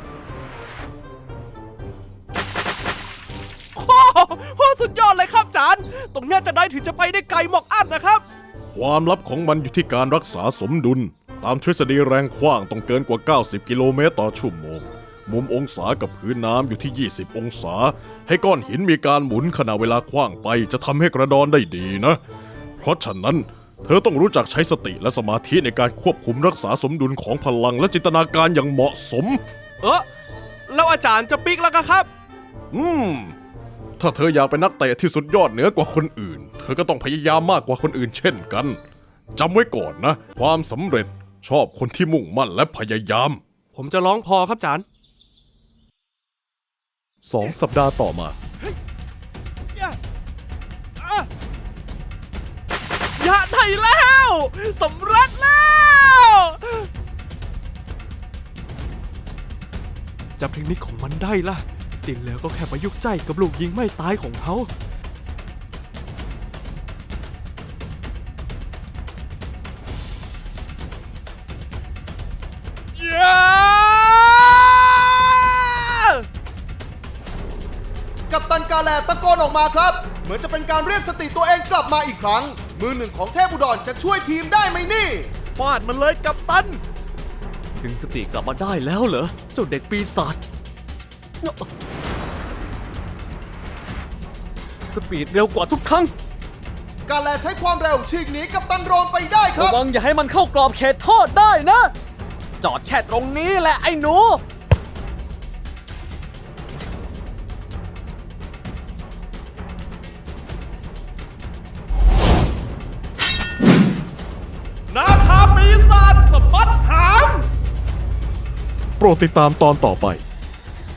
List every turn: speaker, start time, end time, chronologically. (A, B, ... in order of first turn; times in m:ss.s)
0:03.7-0:08.2 A
0:08.7-0:22.2 B
0:22.8-0:29.4 B
0:29.8-0:30.1 A
0:30.7-0:32.1 A
0:32.7-0:33.4 B
0:34.0-0:38.8 B
0:39.4-0:43.4 B
0:43.7-0:44.8 A
0:47.2-0:48.4 B
0:51.0-0:51.3 A
0:53.2-0:56.9 A
1:00.4-1:04.7 A
1:13.0-1:15.5 A
1:18.3-1:25.3 C
1:25.6-1:26.8 B
1:27.7-1:30.4 D
1:34.9-1:36.1 D
1:37.1-1:39.8 C
1:39.5-1:41.9 D
1:42.6-1:44.4 D
1:54.9-1:57.5 A
1:59.0-2:00.2 B